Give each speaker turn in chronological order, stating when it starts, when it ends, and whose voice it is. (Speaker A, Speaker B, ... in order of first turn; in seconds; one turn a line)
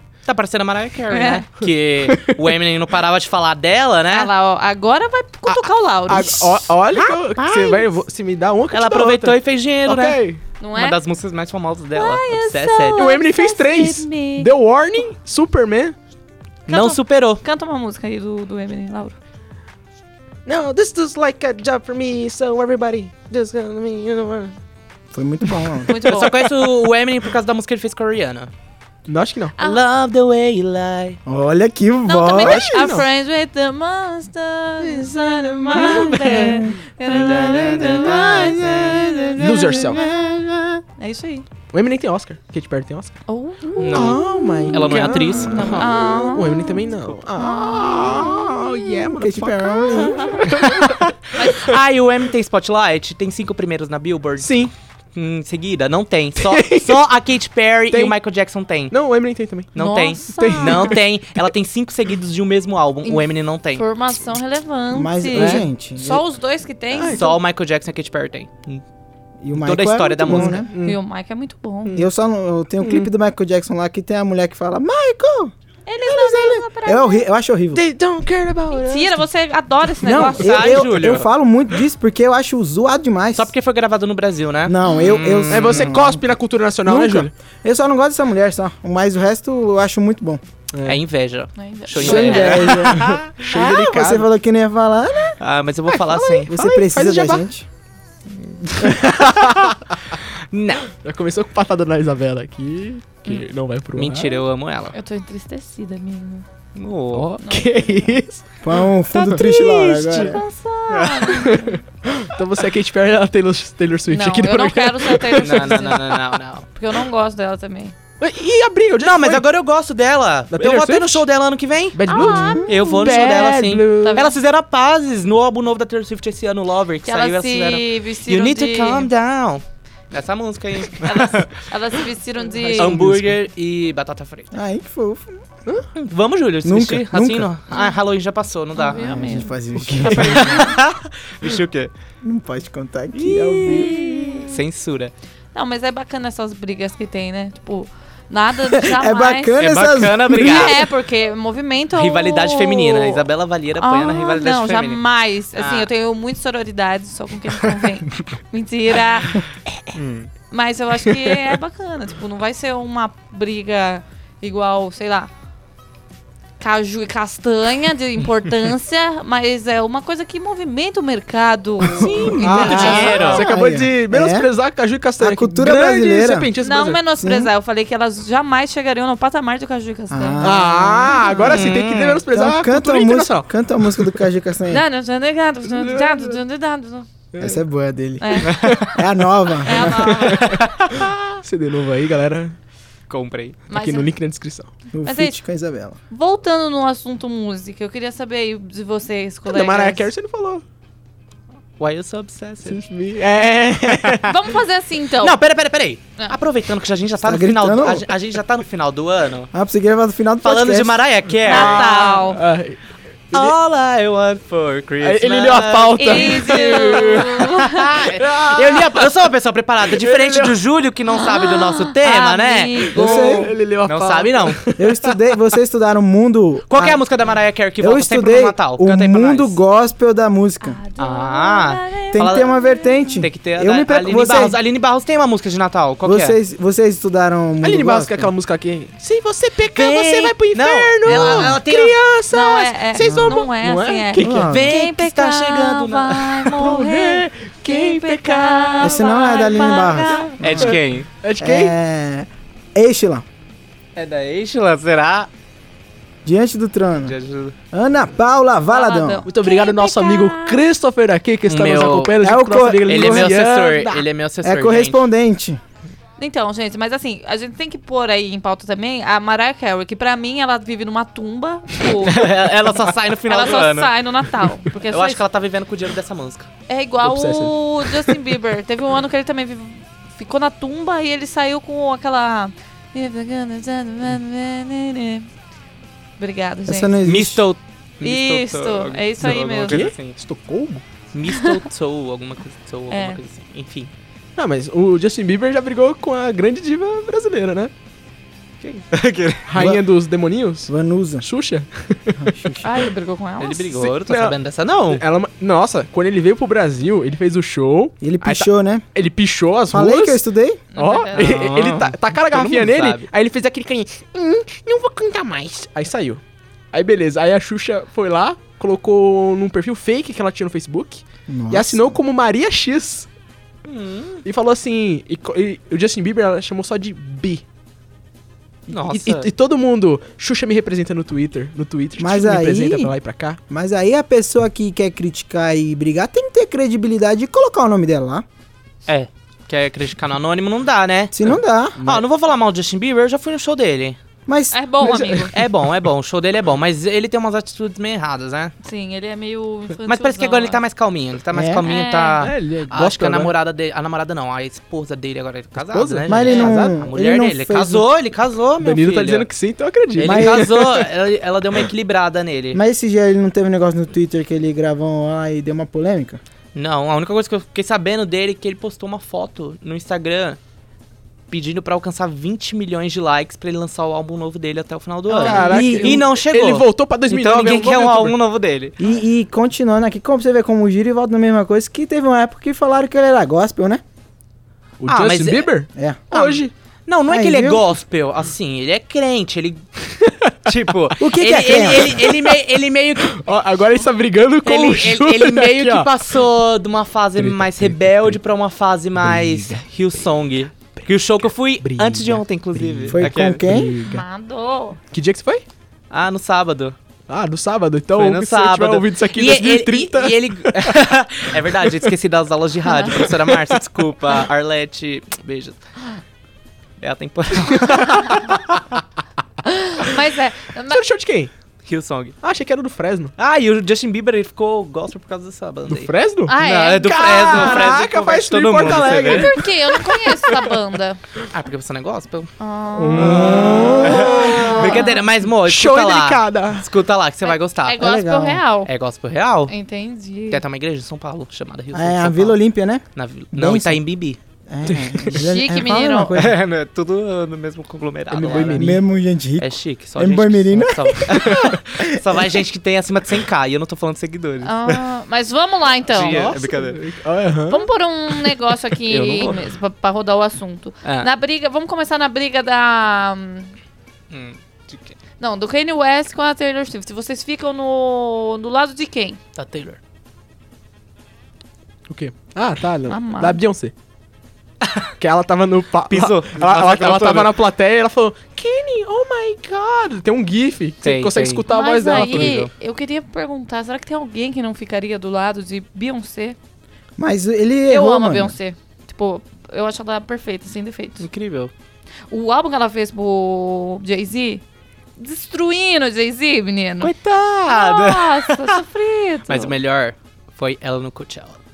Speaker A: 0.2-4.3
Speaker B: 1.1-1.4
Speaker C: 1.6-2.4
Speaker B: 4.1-6.7
Speaker C: 5.5-10.4
Speaker A: 6.9-7.8
Speaker A: 8.7-13.0
Speaker B: 10.6-11.0
Speaker B: 11.9-14.5
Speaker C: 12.9-15.9
Speaker A: 16.7-17.4
Speaker B: 16.7-19.1
Speaker C: 20.4-24.6
Speaker D: 25.1-26.0
Speaker B: 25.9-26.4
Speaker A: 26.1-28.5
Speaker C: 29.1-29.5
Speaker A: 29.6-31.2
Speaker D: 31.2-33.0
Speaker B: 32.0-40.3
Speaker C: 32.4-33.0
Speaker C: 34.8-36.6
Speaker D: 35.7-36.8
Speaker A: 37.1-39.0
Speaker D: 38.0-40.8
Speaker C: 39.4-40.0
Speaker B: 41.0-41.4
Speaker C: 41.7-51.7
Speaker B: 43.3-46.8
Speaker A: 43.8-45.9
Speaker B: 47.4-48.5
Speaker D: 49.0-50.5
Speaker A: 50.6-58.9
Speaker C: 54.4-54.7
Speaker C: 56.4-57.0
Speaker C: 58.9-59.7
Speaker A: 59.7-63.8
Speaker B: 59.8-61.0
Speaker C: 60.4-61.0
Speaker B: 63.0-67.4
Speaker D: 64.9-66.2
Speaker C: 65.4-65.6
Speaker C: 66.9-67.4
Speaker A: 67.1-68.8
Speaker D: 69.4-70.7
Speaker A: 69.5-70.6
Speaker C: 70.2-71.0
Speaker B: 70.8-72.0
Speaker D: 71.9-75.5
Speaker C: 72.8-73.1
Speaker B: 75.8-77.2
Speaker D: 76.0-77.8
Speaker C: 77.7-79.2
Speaker B: 78.7-80.8
Speaker D: 80.0-83.5
Speaker A: 80.1-81.3
Speaker A: 83.3-85.9
Speaker D: 84.6-86.3
Speaker C: 85.5-87.3
Speaker D: 86.8-90.4
Speaker C: 90.7-91.0
Speaker A: 90.8-93.3
Speaker B: 91.6-92.7
Speaker D: 91.9-95.4
Speaker C: 92.8-94.2
Speaker A: 95.4-96.5
Speaker C: 95.9-97.5
Speaker D: 96.5-97.7
Speaker C: 98.8-99.8
Speaker A: 98.9-99.7
Speaker A: 100.5-100.9
Speaker C: 101.0-104.4
Speaker A: 103.9-104.9
Speaker B: 104.9-106.4
Speaker A: 106.7-107.3
Speaker C: 107.1-108.5
Speaker B: 107.4-108.1
Speaker D: 108.6-110.4
Speaker B: 109.1-111.8
Speaker A: 110.9-111.4
Speaker C: 111.3-115.8
Speaker B: 114.1-116.2
Speaker A: 115.4-116.7
Speaker B: 116.7-117.9
Speaker C: 118.2-119.5
Speaker A: 119.0-122.0
Speaker C: 120.5-121.2
Speaker C: 121.9-124.3
Speaker B: 122.1-124.3
Speaker D: 122.3-122.7
Speaker A: 122.6-131.5
Speaker B: 127.0-129.1
Speaker B: 131.0-133.0
Speaker A: 132.7-134.5
Speaker D: 132.8-133.3
Speaker D: 134.5-135.4
Speaker A: 135.9-139.3
Speaker D: 136.6-137.5
Speaker B: 138.8-139.5
Speaker D: 138.9-140.7
Speaker A: 139.9-141.9
Speaker C: 139.9-140.6
Speaker D: 142.2-144.6
Speaker A: 143.1-145.1
Speaker B: 145.5-149.6
Speaker D: 148.8-150.8
Speaker A: 149.6-150.9
Speaker B: 150.3-159.4
Speaker A: 151.9-155.0
Speaker A: 155.6-155.9
Speaker A: 159.9-160.3
Speaker B: 160.5-165.3
Speaker B: 166.6-173.4
Speaker D: 171.9-174.5
Speaker A: 172.0-173.5
Speaker C: 172.0-177.0
Speaker D: 175.2-176.5
Speaker B: 176.6-180.5
Speaker D: 177.2-177.5
Speaker D: 180.1-181.7
Speaker C: 180.4-184.2
Speaker B: 181.1-181.6
Speaker A: 181.4-182.2
Speaker D: 182.3-184.8
Speaker B: 184.7-187.1
Speaker C: 185.6-186.4
Speaker C: 187.3-187.6
Speaker D: 187.4-190.2
Speaker B: 188.2-188.7
Speaker C: 188.5-189.0
Speaker B: 189.6-190.6
Speaker C: 189.7-190.7
Speaker A: 190.3-191.3
Speaker C: 191.4-192.6
Speaker A: 193.1-193.6
Speaker B: 193.7-194.1
Speaker C: 193.7-194.7
Speaker D: 194.9-196.0
Speaker B: 195.0-195.4
Speaker B: 196.1-200.1
Speaker C: 199.5-200.6
Speaker A: 201.8-202.8
Speaker C: 202.6-204.4
Speaker A: 203.9-204.2
Speaker B: 204.2-205.4
Speaker A: 205.2-209.5
Speaker D: 207.2-208.1
Speaker D: 209.5-211.0
Speaker A: 210.4-212.2
Speaker B: 211.4-212.4
Speaker C: 211.5-212.8
Speaker A: 213.3-223.0
Speaker C: 215.0-217.5
Speaker B: 216.0-218.0
Speaker C: 218.0-219.1
Speaker C: 219.9-220.6
Speaker B: 221.1-223.5
Speaker C: 222.9-225.2
Speaker D: 222.9-223.5
Speaker A: 223.8-224.6
Speaker D: 224.8-227.0
Speaker A: 226.7-229.6
Speaker D: 227.8-230.8
Speaker B: 230.6-233.2
Speaker A: 231.0-232.6
Speaker D: 232.1-234.6
Speaker A: 233.1-236.3
Speaker D: 236.0-238.3
Speaker C: 237.6-244.5
Speaker A: 239.7-241.9
Speaker D: 241.1-241.4
Speaker B: 242.3-250.3
Speaker D: 243.0-243.4
Speaker D: 244.2-244.7
Speaker A: 244.5-246.6
Speaker C: 246.5-248.9
Speaker A: 248.4-248.7
Speaker D: 248.8-250.8
Speaker C: 250.1-251.7
Speaker A: 250.4-251.1
Speaker D: 251.4-253.2
Speaker A: 253.9-255.3
Speaker D: 256.2-257.1
Speaker A: 257.0-257.5
Speaker D: 257.7-259.2
Speaker B: 258.7-260.6
Speaker C: 259.3-264.1
Speaker A: 261.5-262.2
Speaker D: 262.2-263.4
Speaker A: 262.9-265.1
Speaker D: 264.4-265.6
Speaker B: 266.2-272.3
Speaker A: 272.0-273.9
Speaker B: 273.3-275.2
Speaker A: 274.8-276.5
Speaker B: 276.7-285.3
Speaker C: 277.0-277.5
Speaker B: 286.2-286.9
Speaker D: 286.7-287.4
Speaker A: 287.0-290.2
Speaker B: 288.0-289.8
Speaker C: 289.2-290.8
Speaker A: 291.1-293.9
Speaker B: 291.3-291.6
Speaker B: 292.9-293.2
Speaker C: 294.4-297.7
Speaker A: 298.6-299.6
Speaker C: 299.4-302.3
Speaker D: 299.6-299.8
Speaker D: 300.7-301.2
Speaker D: 302.2-302.6
Speaker B: 302.6-303.8
Speaker A: 303.4-305.0
Speaker C: 303.8-304.3
Speaker C: 304.9-310.2
Speaker D: 308.0-308.8
Speaker D: 309.7-310.6
Speaker B: 310.7-311.4
Speaker C: 310.7-316.2
Speaker A: 311.1-313.1
Speaker C: 316.7-323.1
Speaker D: 321.3-321.9
Speaker A: 323.6-324.2
Speaker C: 324.2-327.4
Speaker C: 328.7-333.4
Speaker A: 328.7-329.3
Speaker D: 332.0-332.9
Speaker D: 333.5-338.2
Speaker A: 338.9-344.0
Speaker D: 341.1-341.8
Speaker C: 341.8-342.0
Speaker D: 344.2-345.1
Speaker B: 344.5-345.3
Speaker C: 344.8-345.2
Speaker A: 345.3-348.5
Speaker B: 348.6-350.6
Speaker A: 349.9-359.3
Speaker D: 351.3-351.6
Speaker B: 351.6-352.2
Speaker C: 352.2-353.3
Speaker C: 355.6-356.7
Speaker D: 356.1-357.9
Speaker C: 358.6-360.9
Speaker A: 359.9-362.6
Speaker D: 360.0-360.5
Speaker D: 362.5-366.2
Speaker A: 366.5-370.4
Speaker A: 371.3-378.8
Speaker C: 375.1-378.1
Speaker D: 375.2-376.0
Speaker D: 378.8-383.8
Speaker C: 384.8-386.5
Speaker A: 384.9-385.5
Speaker D: 385.8-386.1
Speaker A: 386.1-389.6
Speaker D: 387.1-387.7
Speaker A: 390.4-393.2
Speaker D: 391.0-392.0
Speaker C: 391.9-392.4
Speaker C: 393.0-396.2
Speaker A: 394.4-403.4
Speaker C: 397.1-398.2
Speaker C: 399.0-400.1
Speaker C: 400.6-400.9
Speaker C: 401.6-404.1
Speaker D: 402.9-403.7
Speaker B: 403.8-404.8
Speaker C: 404.9-405.4
Speaker A: 405.9-406.8
Speaker C: 407.1-410.8
Speaker A: 407.9-415.6
Speaker B: 412.6-413.0
Speaker C: 413.1-413.3
Speaker A: 416.8-418.6
Speaker B: 419.4-420.8
Speaker C: 420.7-421.3
Speaker A: 421.6-422.2
Speaker C: 422.2-423.1
Speaker A: 423.2-429.4
Speaker C: 425.7-430.5
Speaker B: 426.2-427.0
Speaker B: 429.1-431.0
Speaker A: 431.3-432.3
Speaker B: 432.4-433.4
Speaker C: 432.8-436.7
Speaker A: 432.9-437.9
Speaker D: 433.0-434.7
Speaker B: 434.0-435.0
Speaker B: 437.2-438.7
Speaker D: 437.8-438.4
Speaker A: 438.6-439.5
Speaker B: 439.5-440.4
Speaker A: 440.3-442.4
Speaker D: 441.7-443.8
Speaker A: 442.9-444.2
Speaker D: 444.5-446.4
Speaker C: 444.7-445.1
Speaker B: 445.1-446.1
Speaker A: 446.1-448.8
Speaker C: 448.1-448.8
Speaker D: 448.5-452.2
Speaker A: 449.4-454.8
Speaker C: 451.2-451.5
Speaker B: 454.4-456.3
Speaker A: 455.9-456.8
Speaker C: 455.9-457.7
Speaker B: 457.5-463.5
Speaker A: 458.9-459.4
Speaker A: 460.8-461.1
Speaker A: 464.1-465.0
Speaker B: 465.2-469.2
Speaker A: 469.3-469.8
Speaker C: 471.9-473.7
Speaker B: 472.9-473.4
Speaker A: 474.6-474.9
Speaker C: 475.0-482.4
Speaker A: 475.9-477.4
Speaker A: 480.8-482.5
Speaker B: 481.5-486.4
Speaker D: 487.0-488.3
Speaker B: 487.7-491.1
Speaker A: 491.0-491.5
Speaker B: 492.1-494.4
Speaker B: 495.0-496.9
Speaker A: 496.8-498.6
Speaker B: 497.5-499.5
Speaker A: 499.3-501.4